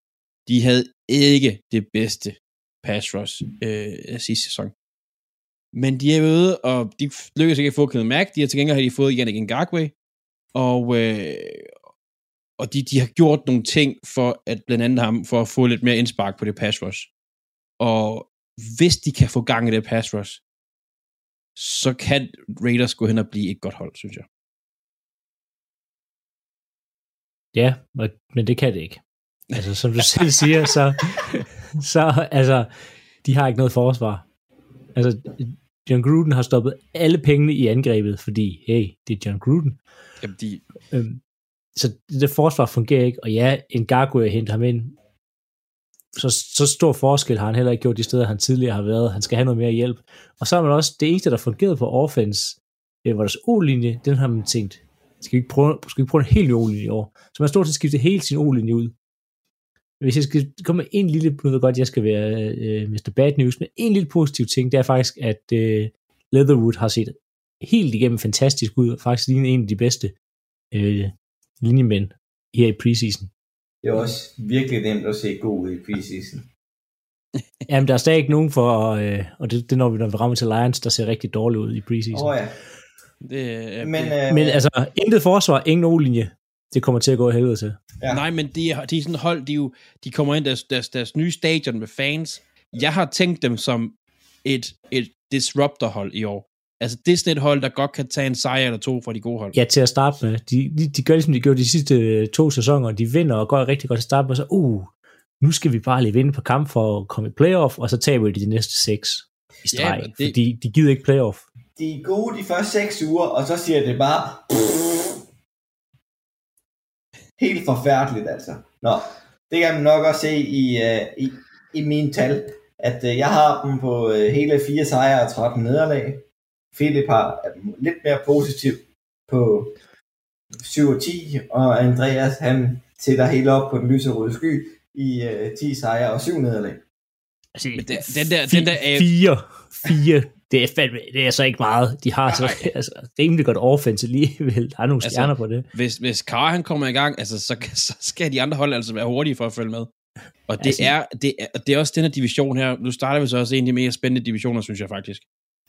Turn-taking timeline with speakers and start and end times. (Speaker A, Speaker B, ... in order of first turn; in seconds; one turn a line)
Speaker A: 0.5-4.7
Speaker A: 5.7-9.9
Speaker A: 10.5-11.7
Speaker A: 12.6-17.1
Speaker A: 17.8-20.4
Speaker A: 21.6-24.2
Speaker B: 27.5-29.0
Speaker A: 29.5-30.3
Speaker B: 29.5-32.7
Speaker B: 33.2-34.2
Speaker B: 34.9-39.8
Speaker A: 40.2-40.6
Speaker B: 40.9-41.2
Speaker B: 41.8-45.0
Speaker B: 46.1-58.9
Speaker B: 60.0-70.1
Speaker B: 70.7-73.3
Speaker C: 73.8-76.4
Speaker B: 77.7-82.3
Speaker C: 82.1-82.6
Speaker A: 83.2-84.2
Speaker C: 83.8-84.6
Speaker B: 84.3-87.8
Speaker A: 88.1-99.5
Speaker B: 99.5-111.4
Speaker A: 109.7-110.3
Speaker C: 111.8-114.7
Speaker C: 117.4-129.8
Speaker C: 130.6-136.8
Speaker B: 137.6-145.6
Speaker A: 137.8-139.1
Speaker A: 142.3-142.7
Speaker A: 145.0-149.9
Speaker A: 150.5-155.2
Speaker B: 150.6-150.9